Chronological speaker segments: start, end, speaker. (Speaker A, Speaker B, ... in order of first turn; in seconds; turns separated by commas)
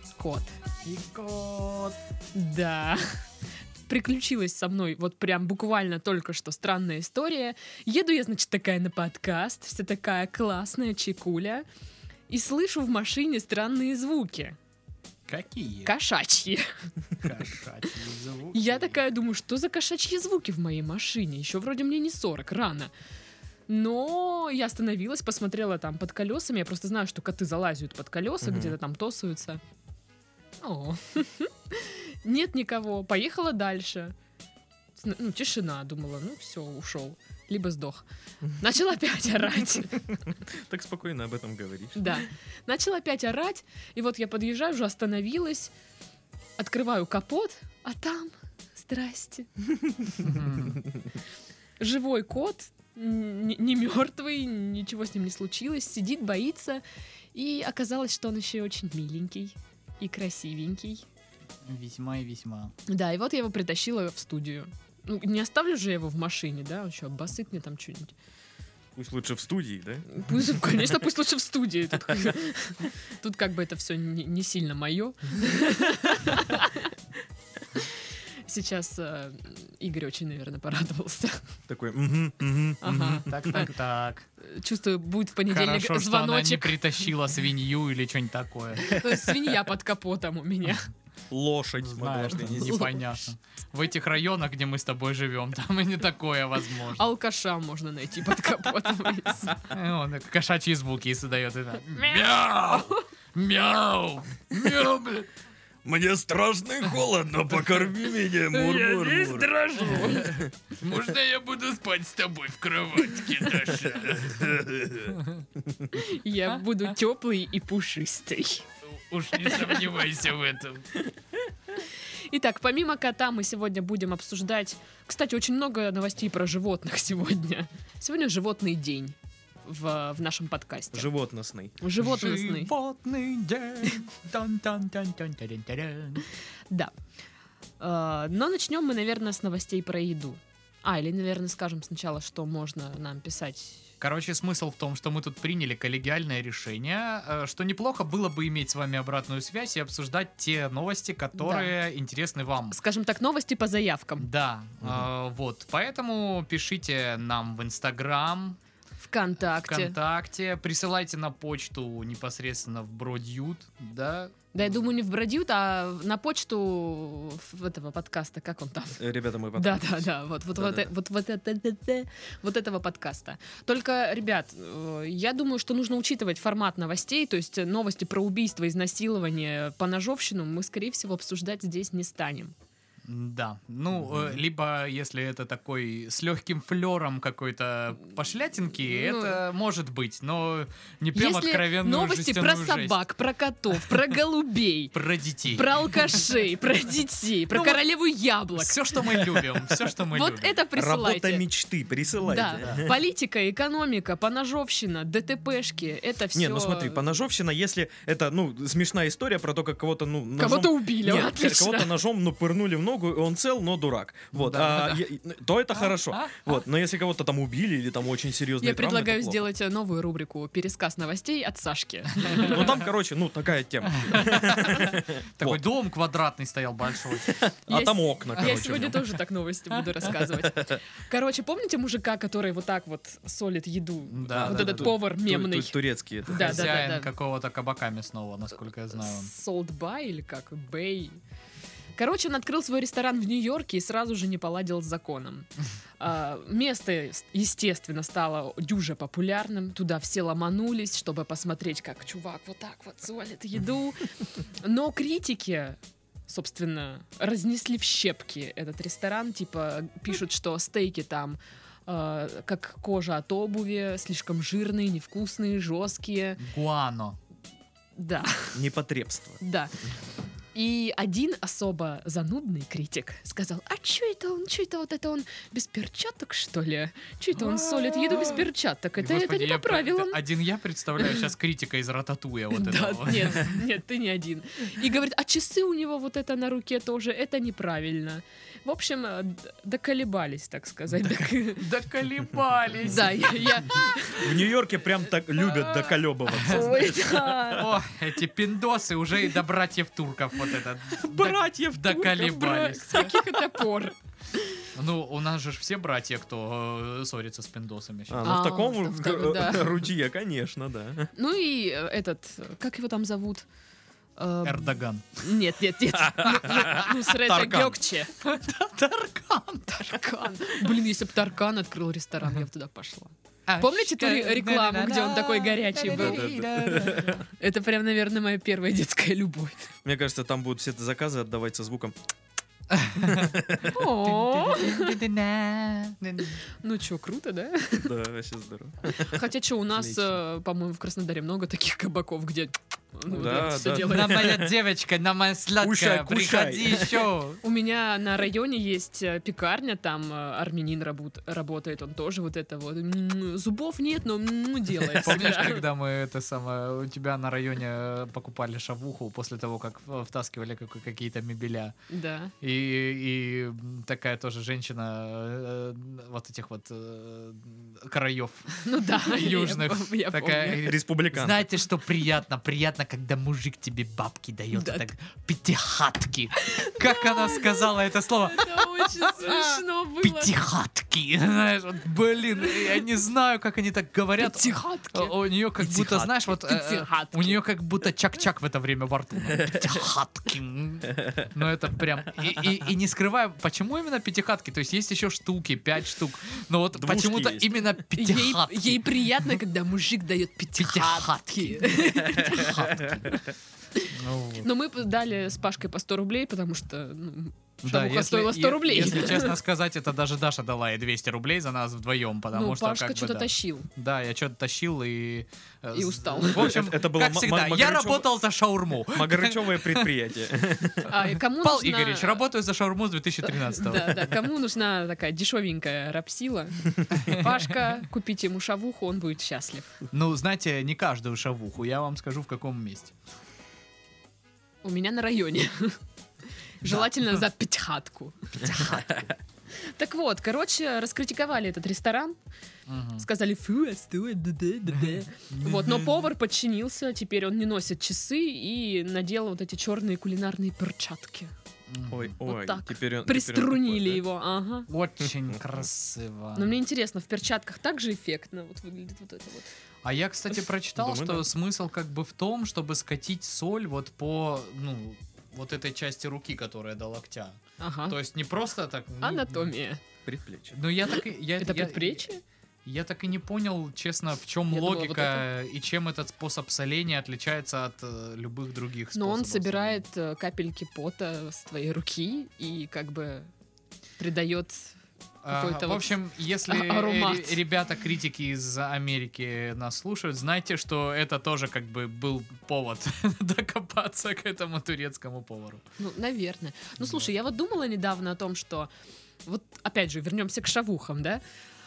Speaker A: 0.2-0.6, Speaker B: 0.8-2.0, Speaker A: 2.3-3.0, Speaker A: 3.9-11.6, Speaker A: 12.3-14.6, Speaker B: 15.3-15.9, Speaker A: 15.8-16.6, Speaker B: 17.2-19.0, Speaker A: 18.5-22.9, Speaker A: 23.7-29.6, Speaker C: 28.4-28.8, Speaker A: 30.6-34.1, Speaker A: 35.0-38.0, Speaker A: 38.6-40.1, Speaker C: 40.3-42.2, Speaker A: 42.0-45.7, Speaker A: 46.6-49.5, Speaker C: 49.9-50.3, Speaker B: 50.2-50.8, Speaker A: 51.8-56.8, Speaker A: 57.3-61.0, Speaker B: 61.6-62.7, Speaker A: 62.9-68.1, Speaker C: 69.0-70.5, Speaker A: 70.1-76.9, Speaker A: 77.7-81.4, Speaker C: 81.7-83.7, Speaker A: 82.8-83.7, Speaker B: 83.0-84.3, Speaker A: 84.4-87.0, Speaker B: 85.5-89.0, Speaker A: 88.8-90.9, Speaker C: 91.3-92.8, Speaker B: 91.8-97.0, Speaker A: 92.6-93.0, Speaker A: 96.9-99.6, Speaker B: 99.7-105.3, Speaker A: 101.9-103.0, Speaker C: 105.8-109.6, Speaker A: 108.5-110.4, Speaker B: 109.9-114.5, Speaker C: 110.2-110.5, Speaker C: 113.9-115.9, Speaker B: 115.1-115.4, Speaker A: 115.9-118.7, Speaker B: 118.9-120.9, Speaker A: 122.3-131.1, Speaker C: 130.9-131.8, Speaker A: 131.8-132.7, Speaker B: 132.0-136.3, Speaker A: 137.8-143.8, Speaker B: 144.0-152.8, Speaker A: 151.3-151.7, Speaker A: 152.7-154.2, Speaker B: 154.2-158.6, Speaker A: 159.0-159.9, Speaker B: 159.6-164.3, Speaker A: 164.5-169.0, Speaker C: 169.0-170.9, Speaker A: 169.5-182.5, Speaker B: 183.1-193.0, Speaker C: 184.0-184.3, Speaker A: 188.9-189.4, Speaker A: 191.1-194.9, Speaker B: 194.9-196.0, Speaker A: 195.5-199.4, Speaker B: 197.5-197.8, Speaker B: 198.5-200.6, Speaker A: 200.1-201.4, Speaker C: 200.7-202.9, Speaker A: 202.2-207.2, Speaker B: 202.6-202.8, Speaker C: 206.3-219.4, Speaker A: 210.4-212.0, Speaker B: 214.3-215.1, Speaker B: 215.8-216.3, Speaker A: 218.6-222.8, Speaker B: 222.2-222.8, Speaker C: 222.4-225.6, Speaker B: 223.8-227.4, Speaker C: 227.2-229.0, Speaker A: 227.7-237.1, Speaker B: 228.4-228.8, Speaker C: 230.2-230.8, Speaker B: 234.1-234.9, Speaker C: 234.3-236.9, Speaker B: 236.3-239.3, Speaker A: 238.9-241.2, Speaker A: 241.9-245.5, Speaker A: 246.0-266.4, Speaker B: 266.4-267.2, Speaker A: 268.0-268.6, Speaker C: 268.5-269.4, Speaker A: 269.4-269.7, Speaker A: 270.5-280.2, Speaker B: 277.4-278.5, Speaker B: 279.0-283.6, Speaker A: 282.5-291.6, Speaker B: 291.5-293.6, Speaker A: 292.8-294.5, Speaker C: 294.1-297.6, Speaker A: 295.4-297.7, Speaker B: 297.5-303.2, Speaker C: 301.1-302.0, Speaker A: 301.1-304.6, Speaker B: 304.7-308.3, Speaker C: 308.1-311.1, Speaker A: 308.2-309.8, Speaker A: 311.1-313.5, Speaker A: 314.1-318.1, Speaker B: 314.4-315.4, Speaker C: 316.2-317.8, Speaker B: 318.2-319.8, Speaker A: 319.7-329.7, Speaker B: 323.5-327.2, Speaker C: 325.9-327.2, Speaker C: 329.8-331.9, Speaker B: 332.7-336.4, Speaker C: 333.0-333.7, Speaker A: 333.7-335.0, Speaker A: 336.6-337.9, Speaker C: 337.8-339.2, Speaker A: 338.9-344.3, Speaker C: 339.8-340.1, Speaker C: 343.1-344.5, Speaker B: 343.4-347.4, Speaker C: 345.6-347.1, Speaker A: 347.4-355.6, Speaker B: 354.9-361.7, Speaker A: 361.9-362.3, Speaker B: 362.4-399.2, Speaker A: 368.6-370.6, Speaker C: 370.6-371.4, Speaker A: 374.5-374.8, Speaker A: 376.4-380.3, Speaker A: 382.4-382.8, Speaker A: 384.2-387.4, Speaker C: 396.7-397.6, Speaker A: 397.9-403.2, Speaker B: 400.6-403.2, Speaker C: 402.2-402.9, Speaker A: 403.7-409.4, Speaker B: 403.9-404.5, Speaker B: 407.6-419.9, Speaker A: 412.3-413.7, Speaker A: 415.7-416.6, Speaker C: 416.3-418.1, Speaker C: 418.9-420.9, Speaker A: 420.8-422.2, Speaker B: 421.2-424.1, Speaker A: 423.2-429.8, Speaker B: 426.9-427.4, Speaker B: 429.9-432.9, Speaker A: 434.6-435.8, Speaker A: 436.6-442.1, Speaker C: 438.4-439.1, Speaker B: 442.7-443.0, Speaker A: 443.0-451.3, Speaker B: 444.7-445.8, Speaker B: 451.7-452.1, Speaker C: 451.9-454.0, Speaker A: 452.2-454.7, Speaker B: 454.7-456.6, Speaker A: 456.4-459.5, Speaker B: 459.8-467.4, Speaker C: 460.8-461.3, Speaker A: 467.6-467.9, Speaker B: 467.9-469.5, Speaker A: 469.0-469.8, Speaker C: 470.0-470.5, Speaker B: 470.5-472.1, Speaker A: 470.9-472.2, Speaker B: 472.6-479.8, Speaker A: 474.5-475.2, Speaker A: 478.9-483.3, Speaker A: 484.0-484.7, Speaker B: 485.2-495.6, Speaker A: 485.3-487.4, Speaker A: 495.8-498.7, Speaker A: 499.2-501.2